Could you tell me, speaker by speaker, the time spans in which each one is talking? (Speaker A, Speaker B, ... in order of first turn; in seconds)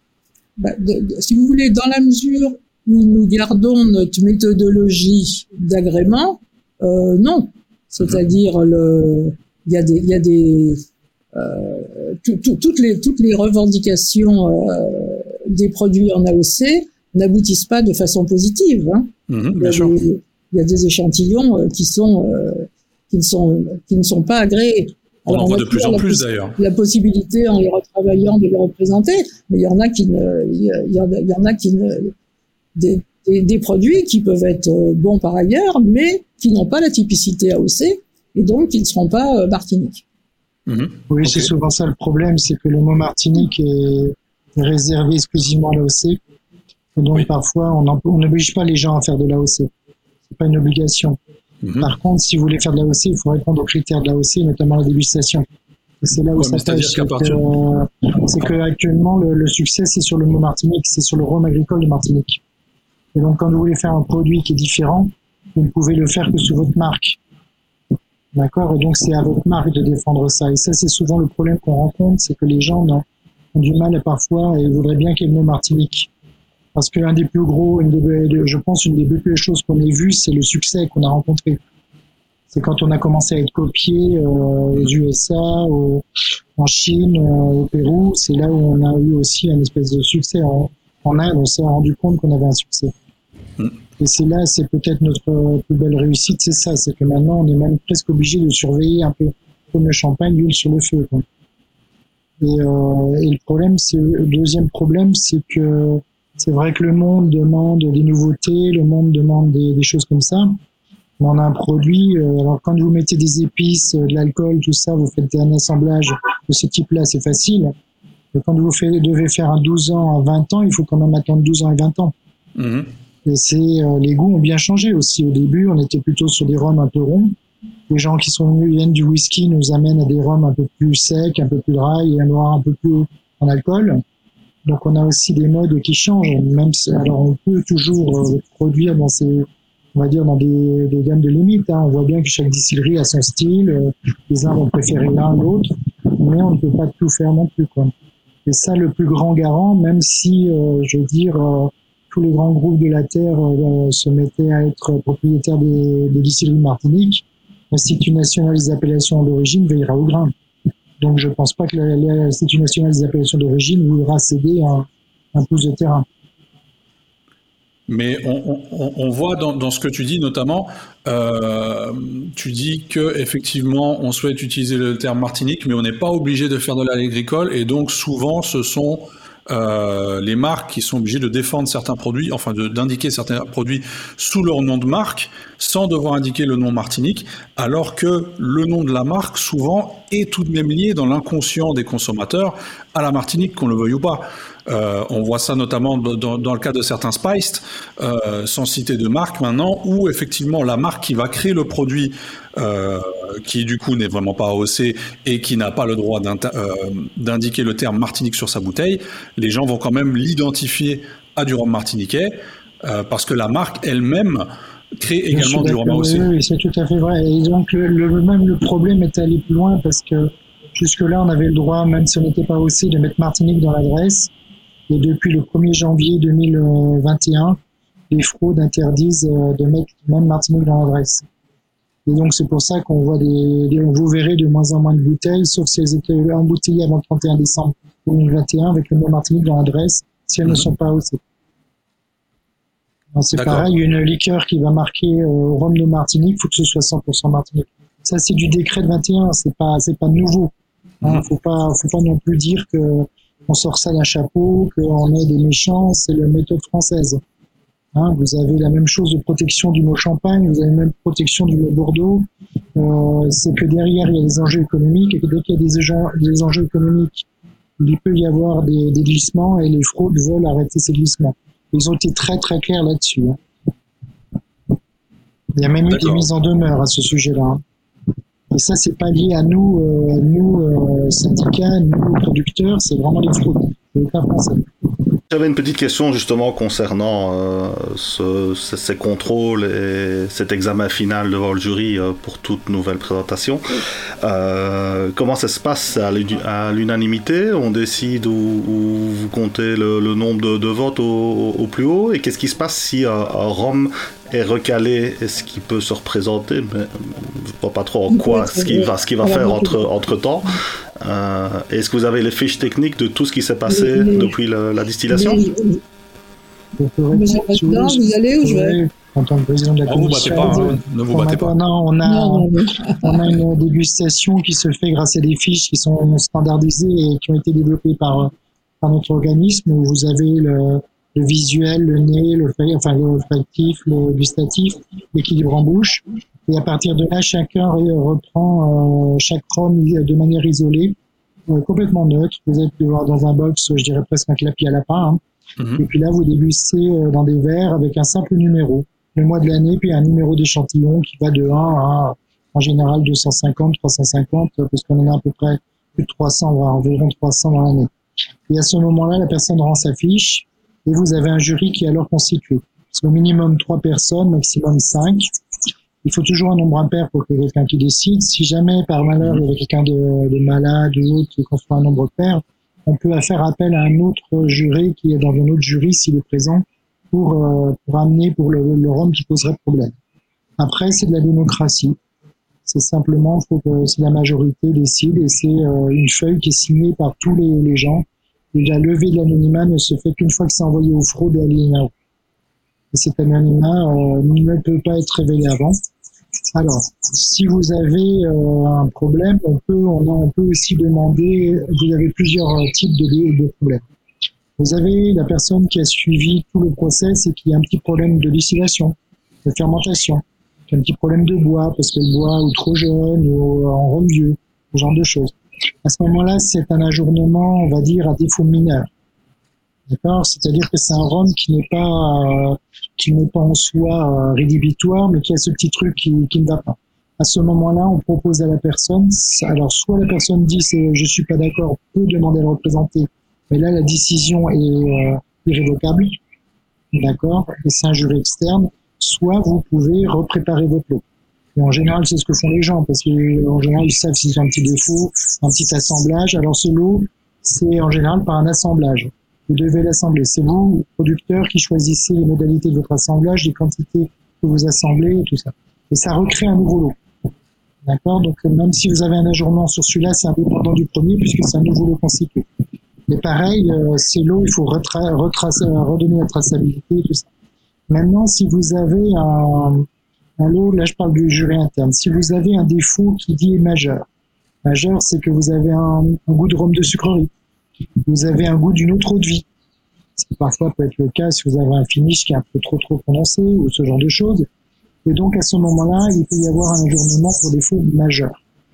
Speaker A: 0.6-32.1, 32.8-40.0, 308.1-309.8, 313.7-314.4, 315.1-315.8, 317.1-318.8, 322.0-323.1
Speaker B: 19.3-19.9, 25.3-26.6, 40.7-41.5, 51.6-51.9, 56.4-57.4, 122.6-122.9, 167.9-216.3, 243.3-243.7, 275.9-276.3, 319.9-321.5, 345.6-345.9
Speaker C: 41.1-46.2, 47.0-49.7, 50.3-51.2, 51.8-55.5, 56.0-62.4, 63.1-67.2, 68.3-76.1, 76.8-81.6, 82.5-86.0, 86.6-92.9, 94.0-101.3, 102.4-110.6, 111.2-117.7, 118.3-122.1, 123.2-127.3, 127.9-134.0, 134.7-147.9, 148.4-160.3, 161.0-166.1, 215.3-224.3, 224.9-227.6, 228.1-231.2, 232.1-241.2, 243.2-257.2, 257.9-267.3, 267.8-273.4, 275.6-277.6, 278.5-284.7, 316.8-341.0, 341.5-345.2, 345.8-357.9, 358.5-365.3, 366.0-379.9, 380.6-382.0, 382.7-391.9, 392.9-395.8, 396.5-403.9, 404.6-418.9, 419.9-436.2, 436.9-441.0, 441.6-457.0, 457.8-462.5, 463.1-467.3, 467.9-469.9, 470.4-474.0, 474.6-477.3, 478.0-479.5, 480.2-484.5, 485.1-488.4
Speaker D: 285.3-315.4